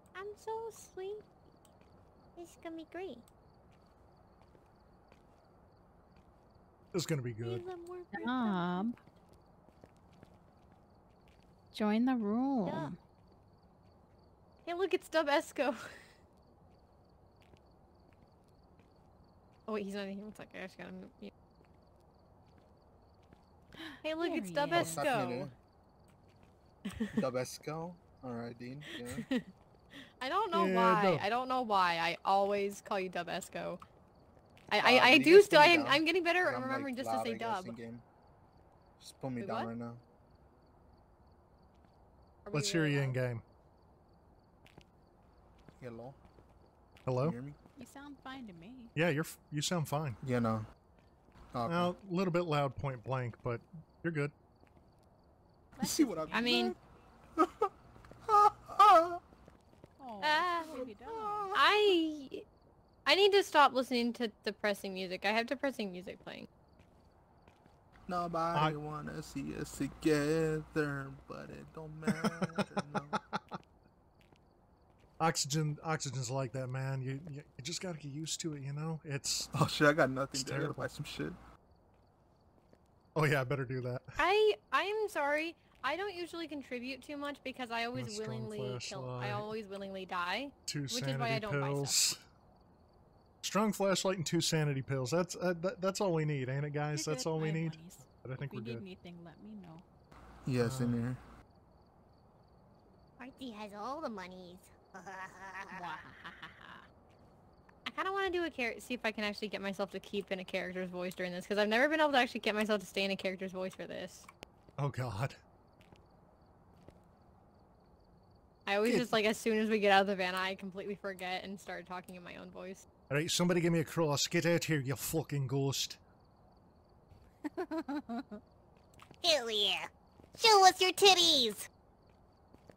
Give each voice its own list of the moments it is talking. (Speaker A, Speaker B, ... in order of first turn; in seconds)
Speaker A: 0.1-1.3, 2.4-3.2, 7.4-8.9, 12.6-12.9, 61.1-61.5, 103.2-106.0, 129.2-131.7
Speaker B: 6.9-7.6, 30.5-31.2, 42.5-43.4, 47.0-47.4, 49.0-50.2, 51.7-54.3, 72.1-73.6, 75.2-79.5, 80.3-80.9, 83.2-84.2, 87.9-89.5, 90.7-92.2, 93.4-98.8, 100.6-101.0, 114.8-115.4, 118.8-119.2, 123.1-126.0
Speaker C: 8.1-9.0, 11.7-13.0, 23.8-25.0, 47.8-48.9, 55.8-56.8, 60.0-61.5, 96.9-99.8, 105.7-106.9, 127.5-128.4
Speaker D: 14.6-16.0, 19.7-21.3, 24.0-25.5, 29.1-33.8, 34.7-37.8, 39.4-39.7, 42.5-43.2, 56.3-56.7, 60.2-60.8, 61.5-62.4, 63.0-66.5, 84.2-92.0, 107.8-114.3, 118.7-122.8
Speaker E: 24.7-25.5, 27.1-29.2, 34.8-38.0, 39.0-40.0, 45.8-46.2, 47.2-47.6, 50.2-50.7, 51.5-52.0, 55.8-56.8, 57.4-57.7, 58.2-59.2, 68.1-73.2, 79.5-81.4, 100.5-101.2